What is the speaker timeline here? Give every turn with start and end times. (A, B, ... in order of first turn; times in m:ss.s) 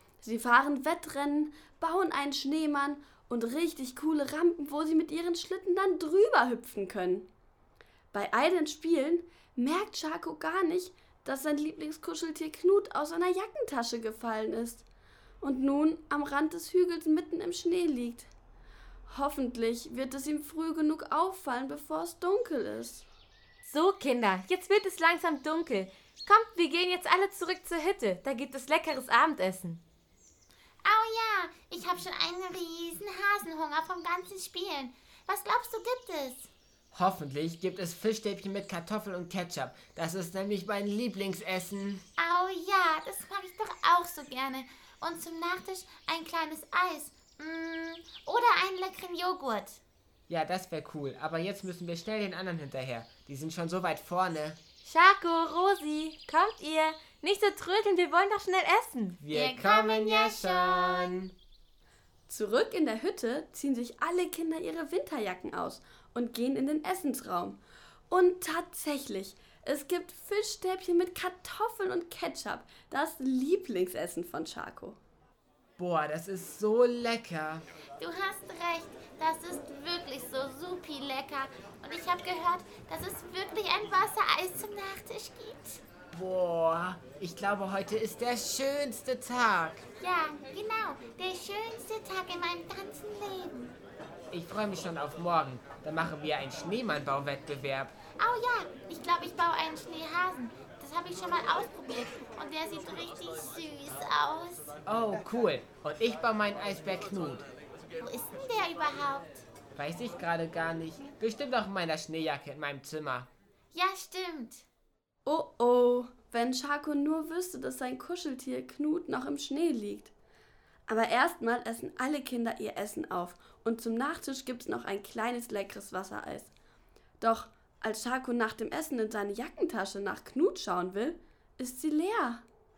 0:00.2-0:07.3 A
0:08.1-0:14.8 A
0:15.4-0:18.3 A
0:19.1-0:23.1 A
0:23.6-0:29.8 B
0:30.8-0:36.5 C
0:36.9-0:42.0 D
0:42.2-0:49.8 C
0:50.3-0:54.6 D
0:54.8-0:59.2 B
0:59.2-1:01.3 D
0:59.3-1:01.1 C
1:02.3-1:15.0 A
1:15.8-1:17.6 D
1:18.0-1:25.8 C
1:26.1-1:29.8 D
1:30.0-1:33.8 C
1:34.3-1:38.0 D
1:38.2-1:44.7 C
1:44.9-1:47.5 D
1:48.0-1:49.4 C
1:49.8-1:53.3 D
1:53.7-1:54.7 C
1:55.3-2:00.1 A
2:00.9-2:06.5 A
2:07.2-2:12.4 A